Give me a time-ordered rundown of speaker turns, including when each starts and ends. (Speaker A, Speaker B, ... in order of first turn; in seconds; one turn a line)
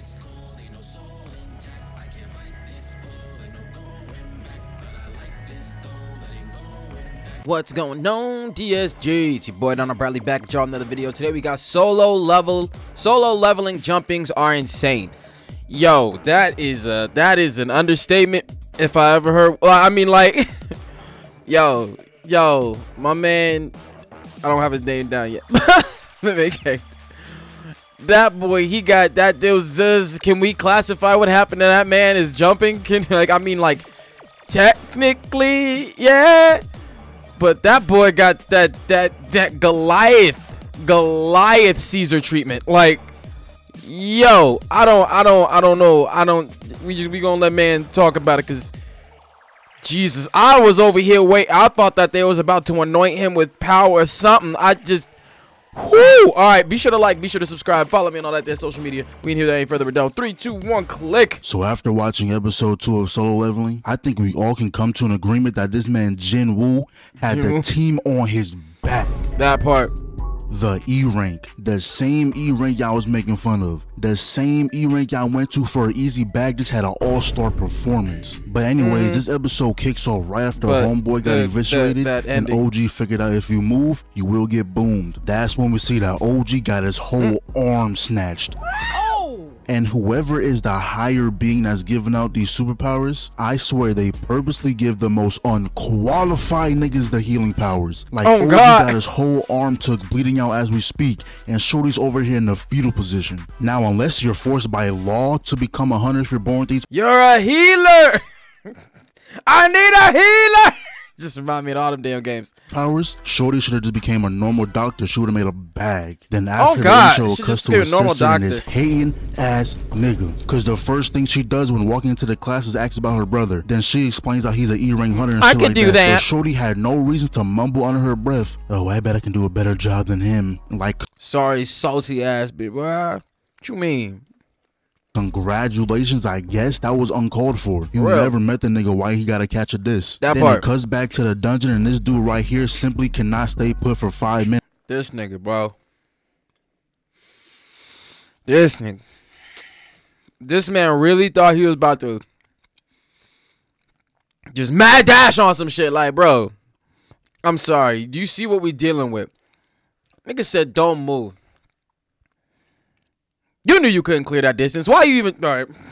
Speaker A: 0.3-4.4
Speaker A: 5.2-6.8
Speaker A: 7.3-15.1
Speaker A: 15.7-20.4
Speaker A: 21.5-23.7
Speaker A: 24.4-26.9
Speaker A: 28.0-33.8
Speaker A: 34.5-36.6
Speaker A: 37.4-43.0
Speaker A: 43.8-48.7
Speaker A: 49.8-55.1
Speaker A: 55.7-61.4
Speaker B: 61.4-69.2
Speaker A: 67.2-67.7
Speaker A: 69.4-69.9
Speaker B: 70.5-88.5
Speaker A: 78.8-79.2
Speaker A: 80.6-82.6
Speaker B: 89.7-106.8
Speaker A: 98.2-98.9
Speaker A: 106.9-108.2
Speaker A: 109.4-112.5
Speaker B: 112.7-131.1
Speaker A: 116.6-118.6
Speaker A: 125.3-126.3
Speaker A: 131.2-134.2
Speaker B: 135.1-144.6
Speaker A: 137.9-138.3
Speaker A: 140.2-140.6
Speaker A: 144.8-145.7
Speaker A: 148.4-149.0
Speaker A: 150.4-152.2
Speaker A: 154.5-156.5
Speaker A: 157.4-159.3
Speaker A: 160.2-161.3
Speaker A: 163.6-165.7